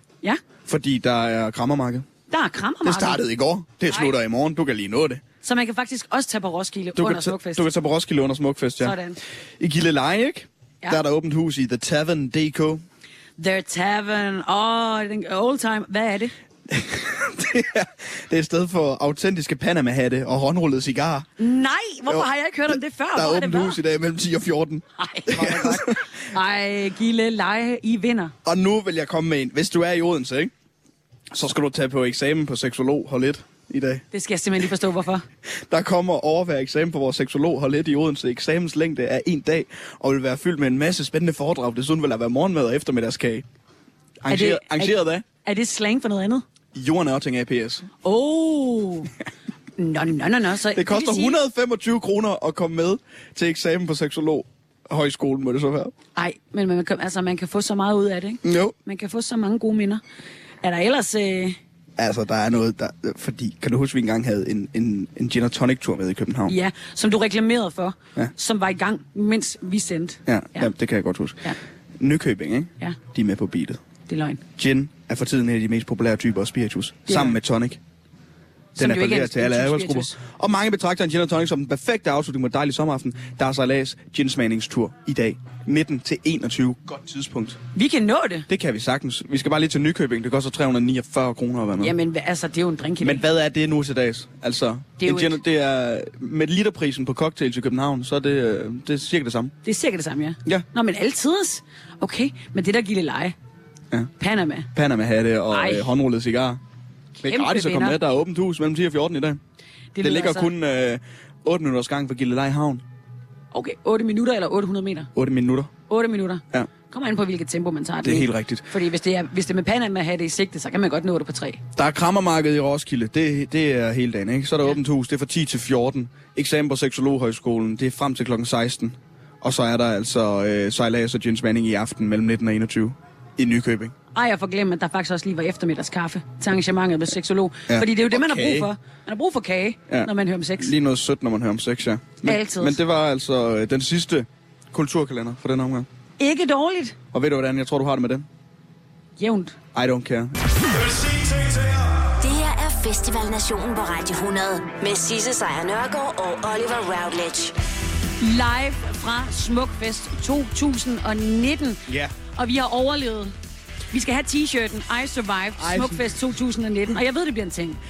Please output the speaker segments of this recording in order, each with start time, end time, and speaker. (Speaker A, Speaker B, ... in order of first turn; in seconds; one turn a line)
Speaker A: 0.7-2.1
Speaker B: 2.3-3.2
Speaker A: 2.8-5.2
Speaker B: 3.9-4.2
Speaker B: 5.4-7.7
Speaker A: 7.0-9.0
Speaker B: 8.8-9.2
Speaker A: 9.6-12.8
Speaker B: 13.4-16.3
Speaker A: 16.7-21.3
Speaker B: 21.4-23.8
Speaker A: 23.1-26.1
Speaker B: 25.0-28.3
Speaker A: 28.4-30.5
Speaker A: 31.3-34.0
Speaker B: 34.1-35.3
Speaker A: 35.7-43.5
Speaker A: 44.2-45.2
Speaker B: 44.3-46.4
Speaker A: 46.8-47.9
Speaker B: 48.0-49.1
Speaker B: 49.8-51.4
Speaker A: 50.7-55.9
Speaker B: 56.2-60.0
Speaker A: 58.4-58.7
Speaker B: 60.6-61.6
Speaker A: 62.0-66.5
Speaker B: 66.5-70.7
Speaker A: 70.3-73.8
Speaker B: 74.1-74.4
Speaker A: 74.6-77.8
Speaker B: 77.1-77.4
Speaker B: 78.8-80.2
Speaker A: 78.8-87.6
Speaker B: 87.8-88.5
Speaker A: 88.5-92.0
Speaker B: 91.8-93.2
Speaker A: 93.0-99.5
Speaker B: 95.0-95.4
Speaker B: 99.6-103.3
Speaker B: 104.2-104.7
Speaker A: 104.7-106.6
Speaker B: 105.5-105.9
Speaker B: 107.2-108.0
Speaker A: 107.2-109.4
Speaker B: 110.0-110.5
Speaker A: 110.0-112.8
Speaker B: 113.5-115.1
Speaker A: 115.2-115.7
Speaker B: 115.9-121.6
Speaker A: 118.0-118.7
Speaker A: 121.8-133.9
Speaker B: 134.1-140.7
Speaker A: 137.7-138.7
Speaker A: 139.9-145.9
Speaker B: 142.2-142.8
Speaker B: 146.2-147.0
Speaker A: 147.1-148.3
Speaker B: 149.2-149.6
Speaker A: 149.8-151.7
Speaker C: 152.2-157.6
Speaker B: 158.2-163.3
Speaker A: 161.9-162.1
Speaker B: 163.9-167.8
Speaker A: 165.6-166.0